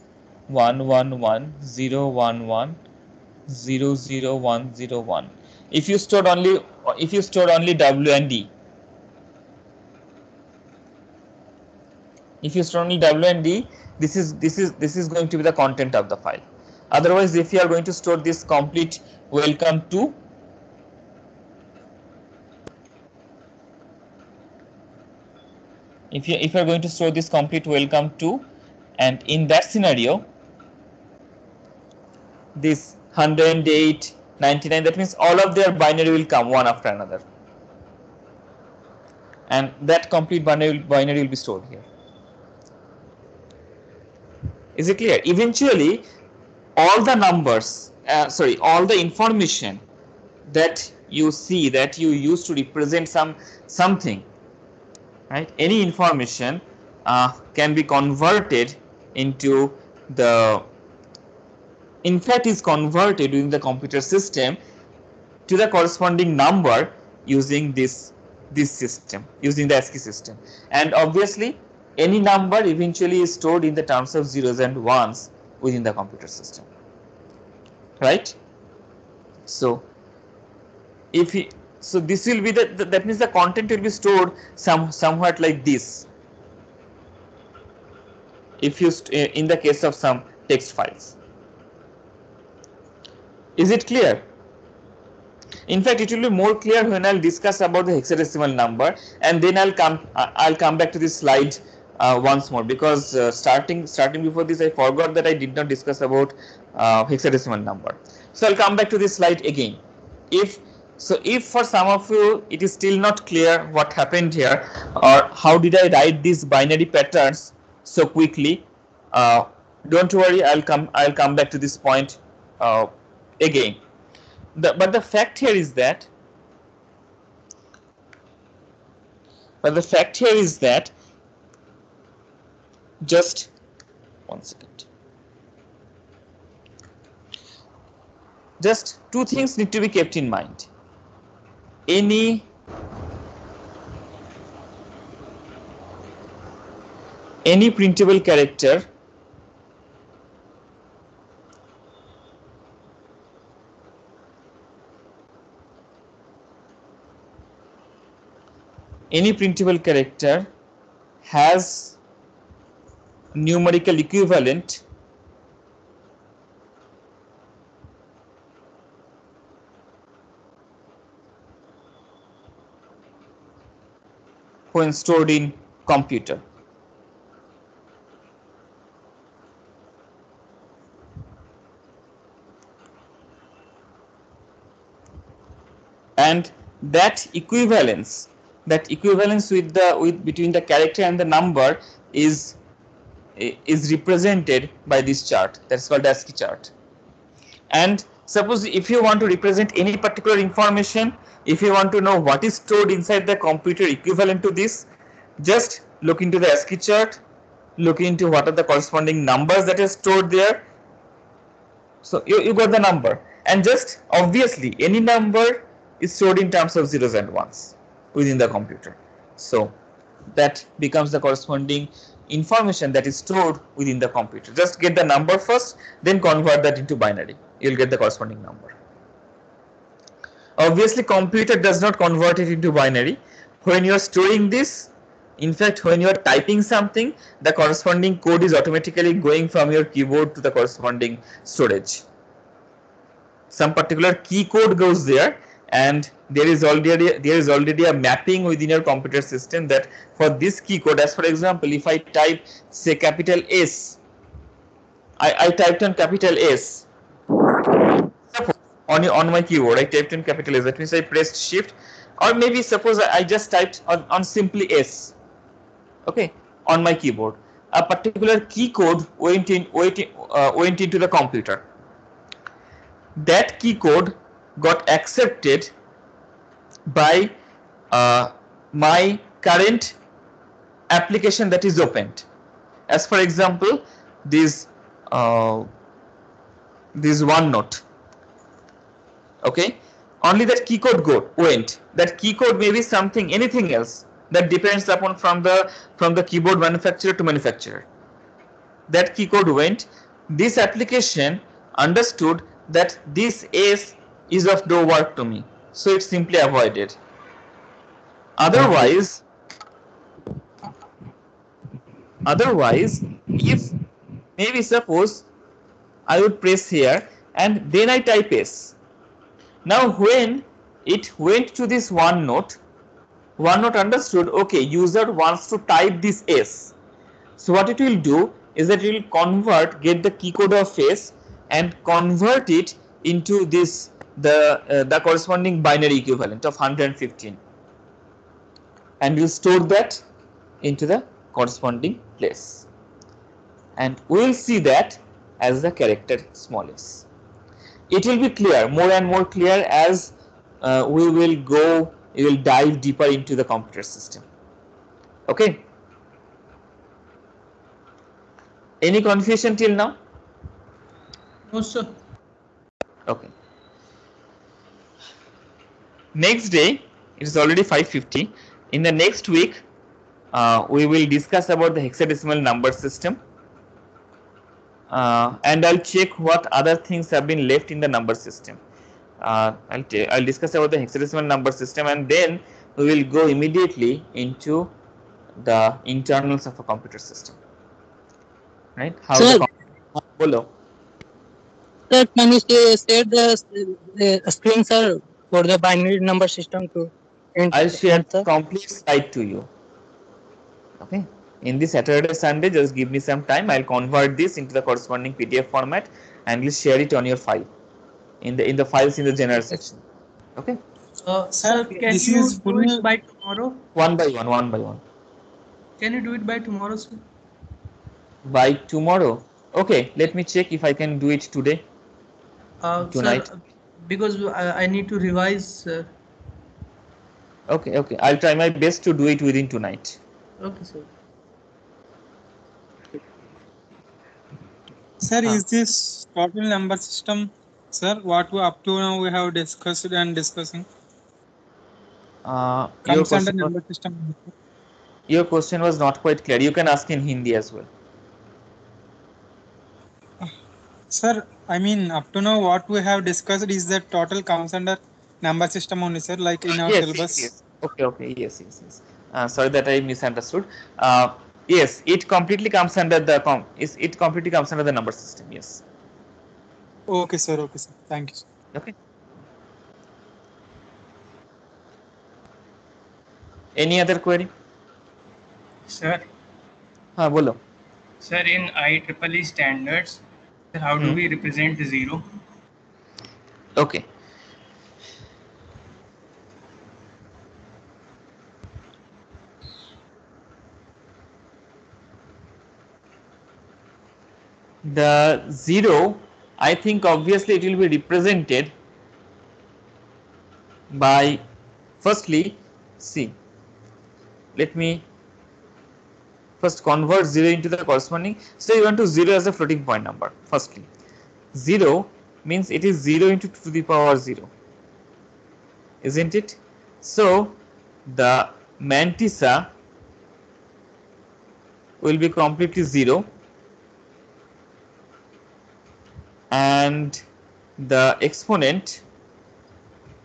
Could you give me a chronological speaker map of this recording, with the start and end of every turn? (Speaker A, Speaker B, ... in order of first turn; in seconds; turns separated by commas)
Speaker A: 0.5-2.8, Speaker A: 3.5-8.5, Speaker A: 12.4-20.2, Speaker A: 26.1-28.4, Speaker A: 29.0-30.3, Speaker A: 32.5-37.2, Speaker A: 39.5-41.9, Speaker A: 44.8-46.1, Speaker A: 46.8-49.8, Speaker A: 50.5-54.2, Speaker A: 55.3-60.6, Speaker A: 62.0-64.6, Speaker A: 65.5-76.7, Speaker A: 78.0-78.4, Speaker A: 79.5-79.8, Speaker A: 81.1-86.1, Speaker A: 88.6-91.2, Speaker A: 93.6-94.2, Speaker A: 95.7-123.8, Speaker A: 124.6-126.1, Speaker A: 129.6-130.9, Speaker A: 133.0-133.5, Speaker A: 134.3-134.9, Speaker A: 138.6-140.7, Speaker A: 141.9-142.5, Speaker A: 147.4-148.9, Speaker A: 159.1-160.5, Speaker A: 161.2-161.9, Speaker A: 163.3-164.8, Speaker A: 174.7-176.4, Speaker A: 186.2-192.6, Speaker A: 193.4-196.7, Speaker A: 197.7-204.9, Speaker A: 205.4-207.2, Speaker A: 207.8-210.6, Speaker A: 212.0-219.7, Speaker A: 220.3-228.8, Speaker A: 230.6-242.1, Speaker A: 243.5-254.0, Speaker A: 255.2-256.9, Speaker A: 258.3-265.1, Speaker A: 266.1-271.6, Speaker A: 273.2-275.7, Speaker A: 276.9-277.3, Speaker A: 277.9-279.9, Speaker A: 280.9-282.2, Speaker A: 282.9-285.7, Speaker A: 286.9-287.8, Speaker A: 289.4-297.9, Speaker A: 298.9-306.9, Speaker A: 308.4-309.2, Speaker A: 312.3-313.7, Speaker A: 314.4-315.3, Speaker A: 316.1-318.8, Speaker A: 319.6-322.6, Speaker A: 323.4-326.7, Speaker A: 327.4-337.4, Speaker A: 339.0-340.0, Speaker A: 340.6-342.7, Speaker A: 343.8-347.1, Speaker A: 347.9-354.2, Speaker A: 355.3-355.6, Speaker A: 358.8-360.0, Speaker B: 361.5-361.9, Speaker A: 363.1-363.3, Speaker A: 366.1-369.6, Speaker A: 370.3-373.2, Speaker A: 374.9-378.6, Speaker A: 379.2-384.7, Speaker A: 385.4-387.4, Speaker A: 388.8-390.5, Speaker C: 389.1-389.4, Speaker C: 391.9-398.3, Speaker A: 397.5-399.5, Speaker A: 400.8-407.5, Speaker A: 408.2-409.8, Speaker B: 411.0-413.6, Speaker D: 411.4-412.8, Speaker A: 413.8-414.8, Speaker B: 415.8-417.0, Speaker A: 418.2-421.6, Speaker B: 422.6-425.9, Speaker A: 422.9-423.3, Speaker A: 427.5-430.0, Speaker B: 430.4-430.9, Speaker D: 435.0-440.7, Speaker A: 442.2-443.5, Speaker D: 442.9-444.3, Speaker A: 445.1-447.7, Speaker D: 450.9-457.3, Speaker A: 456.6-465.6, Speaker D: 466.9-468.2, Speaker A: 473.6-474.3, Speaker E: 475.7-476.1, Speaker A: 477.0-477.4, Speaker E: 478.0-480.0, Speaker E: 480.5-482.0, Speaker A: 483.6-483.9, Speaker A: 494.6-498.5, Speaker A: 500.7-501.2, Speaker A: 501.8-503.1, Speaker A: 504.4-504.9, Speaker A: 506.4-510.7, Speaker A: 511.3-514.3, Speaker A: 515.8-519.5, Speaker A: 521.8-523.1, Speaker A: 526.3-527.0, Speaker A: 527.6-528.8